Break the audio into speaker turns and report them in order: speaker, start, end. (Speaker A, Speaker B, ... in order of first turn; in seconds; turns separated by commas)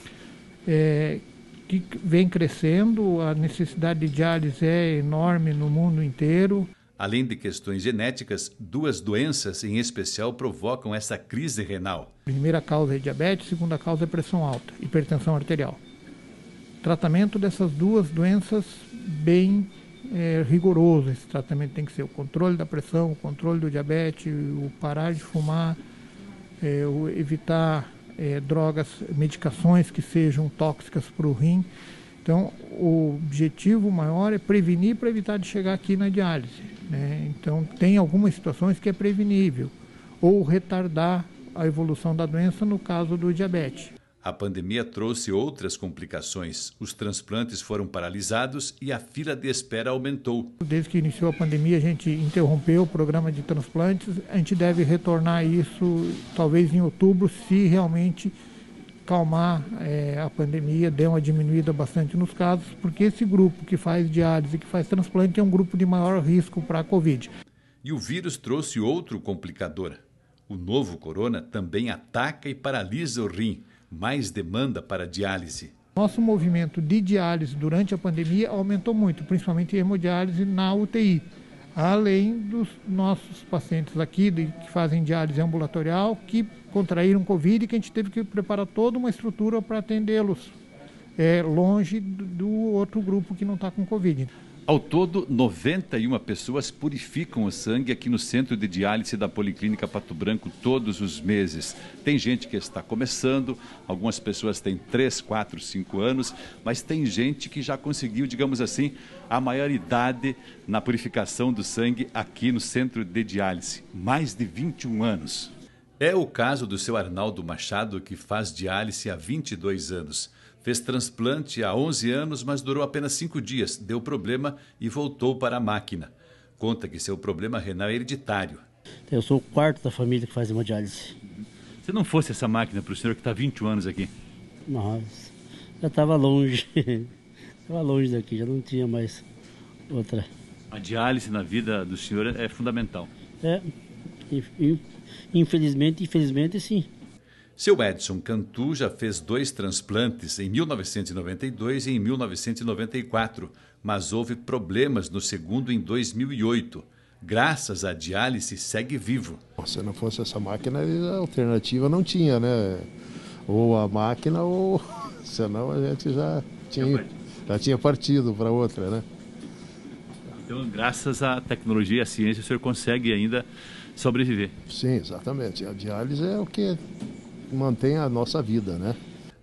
Speaker A: 0.7-6.7, Speaker B: 7.0-12.1, Speaker A: 12.3-15.8, Speaker A: 16.8-25.8, Speaker A: 26.6-31.7, Speaker A: 32.2-43.9, Speaker B: 44.2-50.5, Speaker A: 50.6-58.3, Speaker A: 59.0-67.3, Speaker B: 67.8-75.7, Speaker A: 76.0-90.5, Speaker A: 91.2-94.3, Speaker B: 94.7-128.6, Speaker C: 129.1-131.1, Speaker B: 131.8-134.1, Speaker C: 134.7-137.1, Speaker C: 137.7-139.2, Speaker C: 139.9-140.3, Speaker B: 140.7-143.1, Speaker C: 143.4-143.7, Speaker C: 144.3-146.9, Speaker B: 147.6-159.4, Speaker D: 159.6-162.9, Speaker D: 163.5-169.1, Speaker B: 166.8-167.1, Speaker B: 170.3-174.5, Speaker D: 174.7-176.8, Speaker D: 177.5-179.0